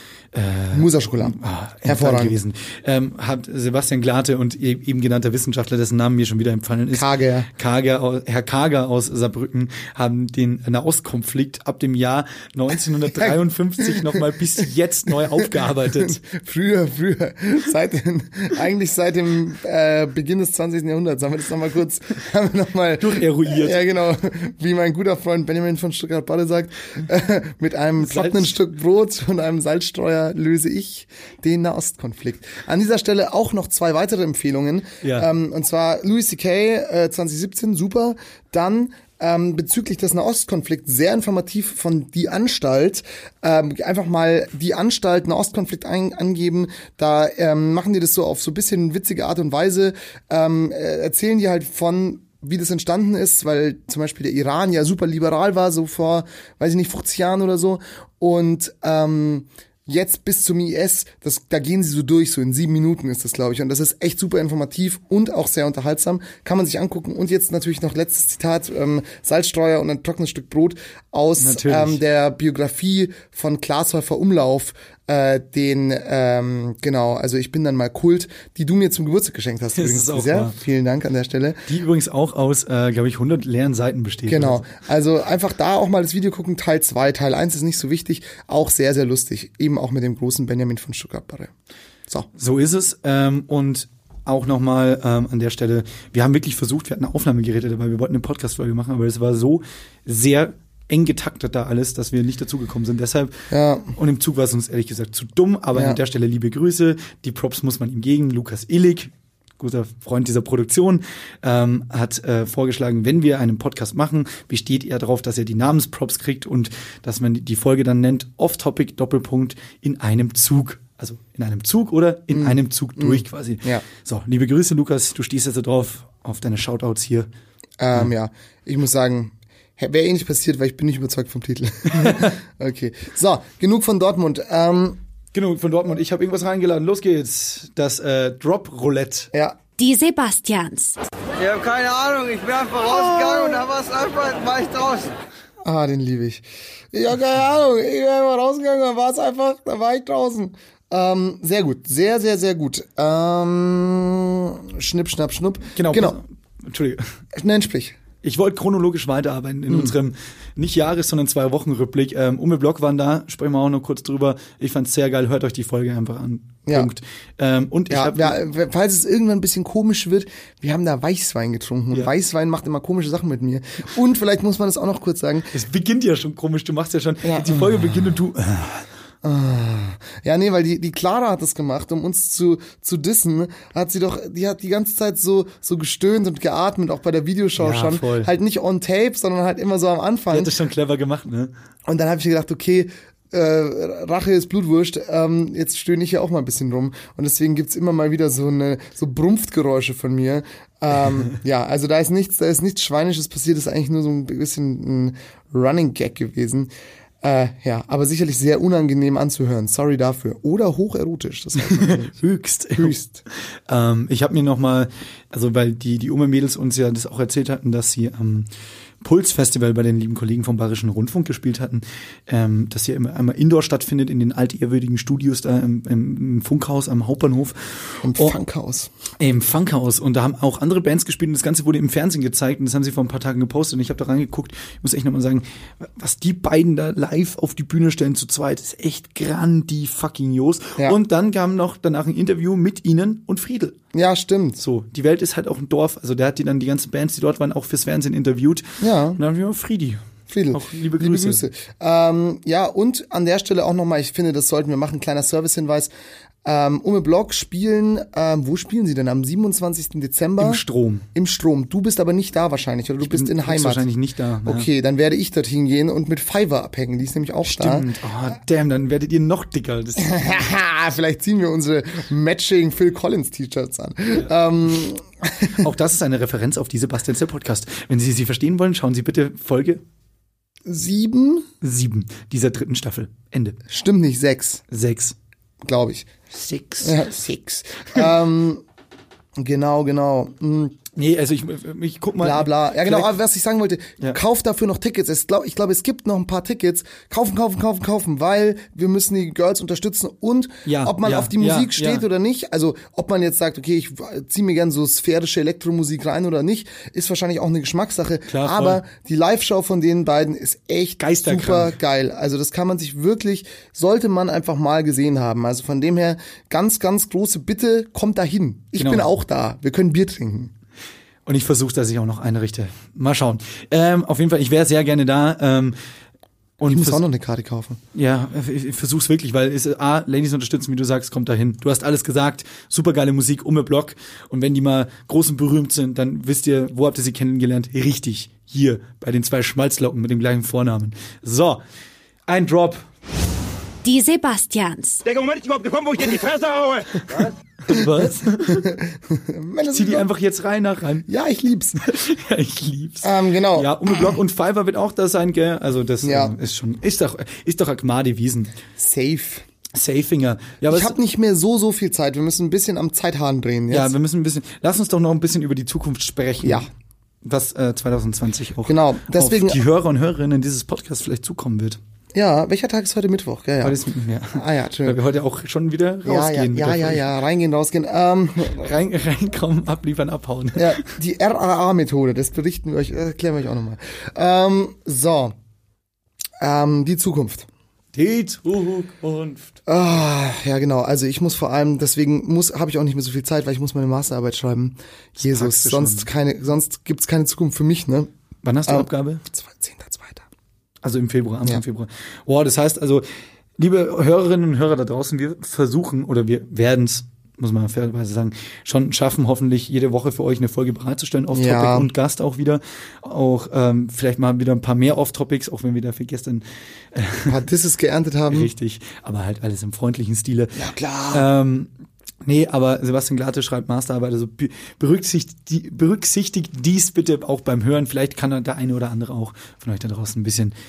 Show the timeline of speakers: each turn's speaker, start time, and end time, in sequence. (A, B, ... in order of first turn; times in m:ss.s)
0:00.3-0:16.2 A
0:00.7-0:02.4 B
0:06.9-0:07.5 B
0:13.1-0:14.2 B
0:15.3-1:21.6 B
0:23.0-0:23.8 A
0:28.0-0:28.5 A
0:35.0-0:35.3 A
1:11.4-1:12.0 A
1:19.7-1:20.6 A
1:21.7-1:24.6 A
1:24.3-1:31.5 B
1:32.4-1:43.4 A
1:43.5-1:43.9 B
1:43.9-2:07.3 A
1:45.7-1:46.0 B
2:02.3-2:03.8 B
2:07.8-2:15.0 B
2:11.9-2:12.4 A
2:15.3-2:19.3 A
2:19.8-2:21.0 C
2:21.4-2:25.1 D
2:22.9-2:23.6 B
2:25.6-2:36.2 B
2:35.7-2:37.1 A
2:37.3-2:38.0 B
2:38.2-2:48.4 A
2:39.7-2:39.9 B
2:46.7-2:46.9 B
2:47.9-2:55.5 B
2:55.5-2:58.8 A
2:57.2-2:58.0 B
2:59.2-3:10.5 B
3:07.6-3:08.3 A
3:10.3-3:11.5 A
3:11.8-3:26.7 B
3:27.2-3:32.1 B
3:31.6-3:32.9 A
3:32.8-3:33.2 B
3:33.7-3:38.5 A
3:39.0-3:48.4 A
3:48.0-3:48.9 B
3:49.2-4:03.8 A
4:03.9-4:04.6 B
4:04.6-4:08.6 A
4:08.8-4:09.2 B
4:09.2-4:11.4 A
4:10.3-4:15.9 B
4:16.4-4:20.6 B
4:20.4-4:21.0 A
4:21.1-4:23.9 B
4:23.0-4:24.7 A
4:24.4-4:27.9 B
4:27.4-4:30.5 A
4:30.0-4:35.6 B
4:35.6-4:39.8 A
4:40.6-4:41.5 B
4:41.6-4:43.6 A
4:43.7-4:44.6 B
4:44.7-4:45.2 A
4:45.6-4:46.1 B
4:46.4-4:47.0 A
4:46.8-4:48.6 B
4:49.4-4:50.8 B
4:51.0-4:53.1 A
4:52.2-5:20.5 B
5:00.6-5:02.0 A
5:08.3-5:08.8 A
5:11.0-5:11.8 A
5:18.8-5:19.1 A
5:21.2-5:25.8 A
5:26.6-5:27.0 A
5:26.7-5:27.8 B
5:27.9-5:41.6 A
5:42.3-5:42.8 A
5:43.8-5:45.0 C
5:45.0-5:47.3 E
5:47.6-5:48.8 A
5:48.5-5:50.1 B
5:49.7-5:51.1 A
5:51.1-5:51.8 B
5:51.8-5:58.5 A
5:53.0-5:54.1 B
5:56.0-5:56.3 B
5:58.8-5:59.4 B
5:59.7-6:01.0 A
6:00.7-6:03.9 B
6:03.7-6:06.6 A
6:06.4-6:06.7 B
6:07.2-6:11.8 A
6:08.6-6:09.6 B
6:12.1-6:13.8 B
6:13.6-6:17.0 A
6:14.3-6:15.0 B
6:16.0-6:18.7 B
6:18.5-6:20.8 A
6:20.6-6:25.3 B
6:26.4-6:27.5 B
6:27.9-6:29.6 A
6:29.7-6:38.1 B
6:35.2-6:36.1 A
6:38.4-6:39.2 A
6:38.7-6:40.2 B
6:40.8-6:43.0 A
6:43.6-6:56.4 A
6:51.3-6:51.9 B
6:56.9-6:57.3 A
6:57.2-6:58.5 B
6:58.3-7:01.7 A
7:00.6-7:01.3 B
7:02.2-7:10.5 A